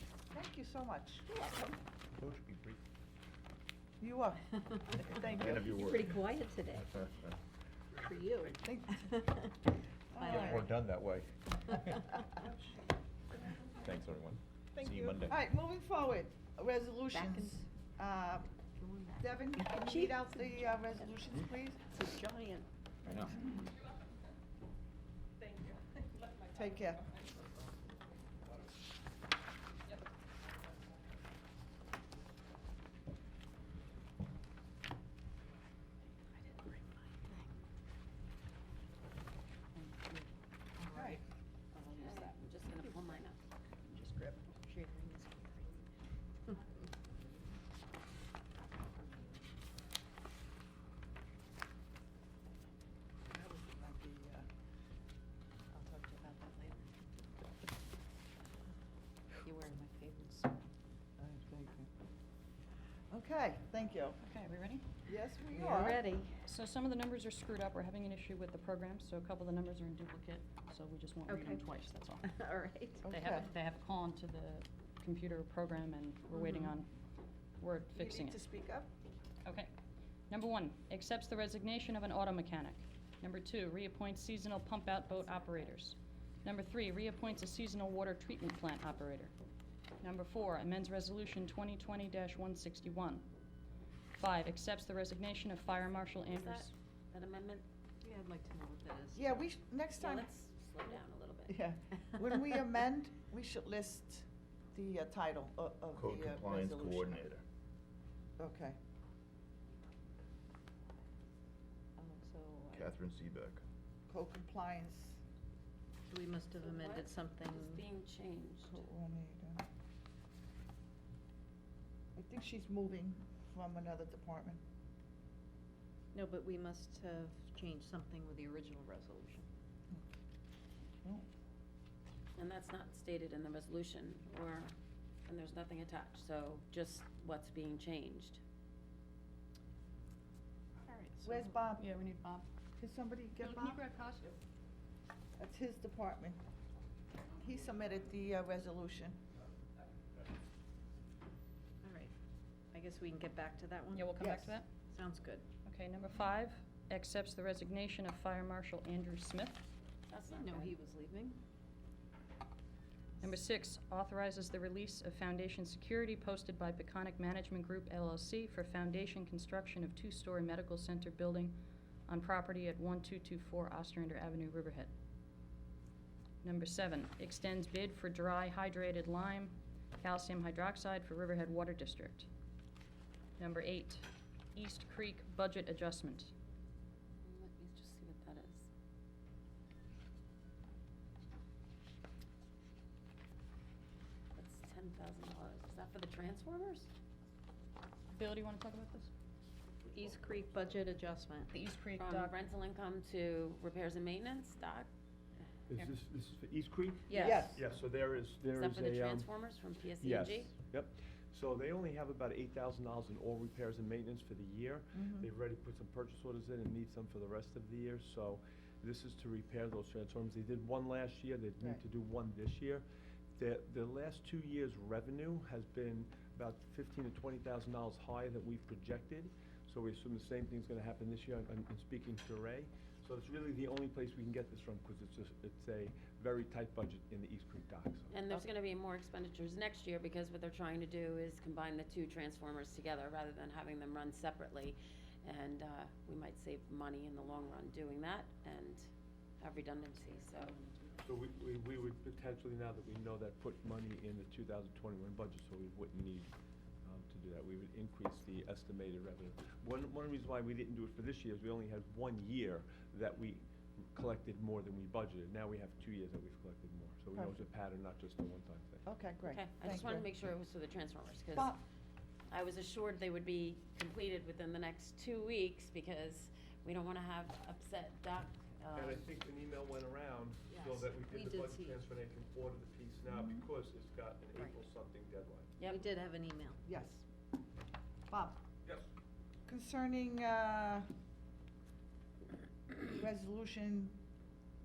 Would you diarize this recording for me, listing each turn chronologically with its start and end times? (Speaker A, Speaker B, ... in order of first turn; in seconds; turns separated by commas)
Speaker A: 0.3-1.8, Speaker B: 2.1-2.8, Speaker A: 4.0-5.6, Speaker B: 5.3-6.2, Speaker C: 5.4-7.0, Speaker B: 7.0-7.2, Speaker C: 7.9-10.8, Speaker A: 8.6-9.1, Speaker A: 10.1-10.7, Speaker B: 10.3-12.1, Speaker B: 13.8-15.3, Speaker A: 14.7-18.5, Speaker C: 17.1-17.6, Speaker C: 18.8-21.0, Speaker A: 19.2-21.8, Speaker C: 21.9-22.7, Speaker B: 23.0-23.3, Speaker A: 26.5-27.1, Speaker C: 36.4-37.4, Speaker C: 39.8-40.2, Speaker C: 40.8-41.2, Speaker A: 40.9-41.2, Speaker C: 41.7-43.1, Speaker D: 41.9-43.4, Speaker C: 43.8-45.9, Speaker A: 53.3-54.5, Speaker C: 55.7-56.9, Speaker C: 59.4-60.6, Speaker A: 61.2-61.9, Speaker A: 63.1-64.2, Speaker E: 64.2-64.9, Speaker A: 65.1-66.0, Speaker C: 65.5-66.5, Speaker E: 66.4-72.3, Speaker C: 71.3-71.7, Speaker C: 72.2-73.1, Speaker A: 73.0-73.5, Speaker E: 73.1-76.9, Speaker E: 77.6-78.4, Speaker A: 77.9-78.9, Speaker E: 79.4-79.7, Speaker E: 80.3-89.3, Speaker E: 90.0-93.3, Speaker E: 94.2-96.7, Speaker D: 96.2-97.6, Speaker C: 98.0-99.4, Speaker A: 99.1-100.3, Speaker D: 100.0-101.6, Speaker A: 101.5-107.3, Speaker B: 105.9-107.4, Speaker A: 108.4-108.8, Speaker C: 112.0-112.9, Speaker B: 112.7-113.6, Speaker A: 114.1-115.2, Speaker C: 116.1-117.8, Speaker D: 116.5-118.8, Speaker A: 118.6-119.6, Speaker A: 122.1-124.6, Speaker C: 126.1-129.5, Speaker D: 132.4-134.7, Speaker D: 135.3-138.4, Speaker C: 140.8-141.4, Speaker A: 141.2-141.9, Speaker E: 141.7-142.4, Speaker A: 142.8-143.8, Speaker E: 143.4-144.3, Speaker A: 145.4-146.4, Speaker A: 147.4-149.2, Speaker C: 151.8-152.1, Speaker C: 152.7-155.4, Speaker E: 153.9-154.7, Speaker A: 154.2-154.5, Speaker E: 155.6-159.6, Speaker D: 160.1-160.7, Speaker C: 160.3-161.4, Speaker E: 163.2-174.9, Speaker E: 176.4-182.3, Speaker E: 183.4-186.3, Speaker D: 187.2-188.7, Speaker D: 194.3-196.9, Speaker E: 198.1-199.1, Speaker C: 199.9-201.5, Speaker F: 200.0-200.8, Speaker E: 201.5-202.3, Speaker D: 202.0-204.9, Speaker F: 205.7-209.3, Speaker C: 207.1-207.6, Speaker A: 207.2-207.6, Speaker D: 208.5-210.5, Speaker F: 210.0-222.8, Speaker A: 214.9-215.3, Speaker F: 223.3-238.1, Speaker D: 238.1-248.9, Speaker D: 249.4-250.6, Speaker C: 250.2-250.9, Speaker F: 251.0-256.3, Speaker F: 256.8-268.8, Speaker A: 267.1-267.4, Speaker A: 268.9-270.1, Speaker D: 269.2-271.5, Speaker A: 271.3-271.6, Speaker D: 272.3-279.1, Speaker F: 278.7-285.5, Speaker C: 280.5-281.8, Speaker A: 283.1-283.5, Speaker D: 285.6-285.9, Speaker C: 285.6-286.6, Speaker A: 286.6-287.0, Speaker A: 288.1-288.4, Speaker A: 289.5-290.9, Speaker A: 292.9-293.9